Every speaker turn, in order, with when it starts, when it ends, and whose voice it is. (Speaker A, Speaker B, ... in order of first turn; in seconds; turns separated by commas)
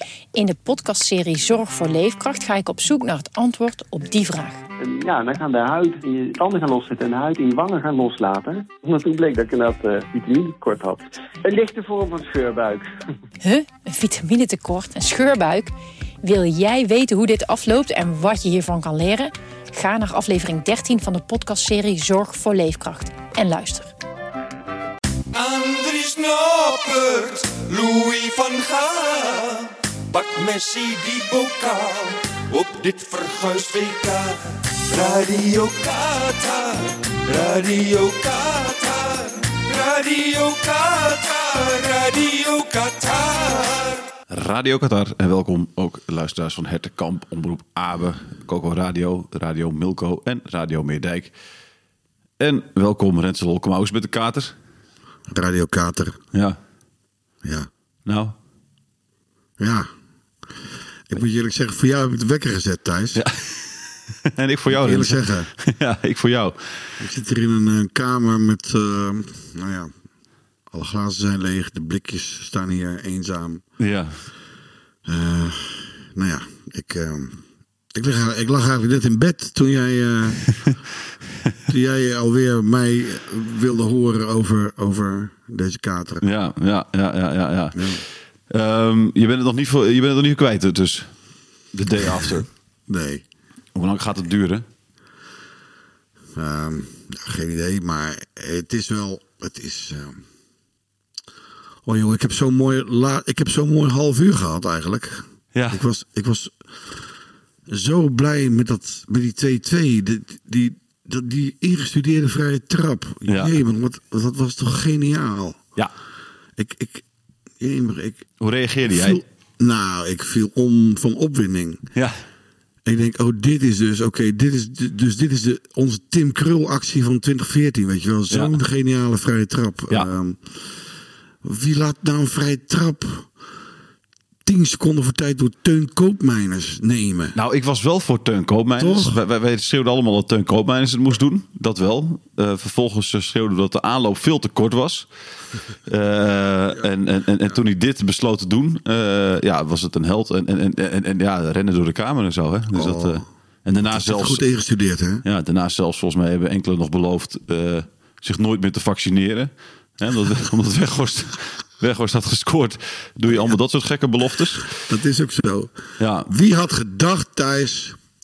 Speaker A: 0.3-4.6, Speaker B: 4.8-12.9, Speaker A: 13.4-23.9, Speaker C: 25.3-44.1, Speaker D: 44.3-51.3, Speaker D: 52.4-54.5, Speaker E: 55.3-56.2, Speaker E: 57.4-57.7, Speaker D: 58.1-58.3, Speaker E: 59.6-59.9, Speaker E: 61.1-63.2, Speaker D: 63.2-67.0, Speaker E: 64.7-65.5, Speaker E: 67.0-69.9, Speaker E: 70.7-73.6, Speaker D: 73.8-74.1, Speaker E: 75.1-77.4, Speaker E: 78.0-80.5, Speaker E: 81.7-86.2, Speaker D: 86.2-91.1, Speaker E: 87.7-88.0, Speaker D: 91.7-92.5, Speaker E: 92.9-93.2, Speaker D: 93.8-94.6, Speaker E: 96.3-100.2, Speaker E: 101.8-107.1, Speaker D: 105.5-105.8, Speaker E: 107.7-115.6, Speaker E: 116.6-117.0, Speaker E: 117.6-118.3, Speaker D: 118.4-119.2, Speaker E: 118.9-121.8, Speaker E: 122.9-130.9, Speaker E: 131.4-133.3, Speaker E: 134.4-137.4, Speaker D: 137.3-145.1, Speaker E: 138.8-139.2, Speaker D: 145.8-154.4, Speaker E: 152.7-153.2, Speaker E: 153.8-155.2, Speaker D: 155.2-164.8, Speaker E: 163.3-163.6, Speaker E: 164.7-165.7, Speaker D: 166.0-166.3, Speaker E: 166.2-168.0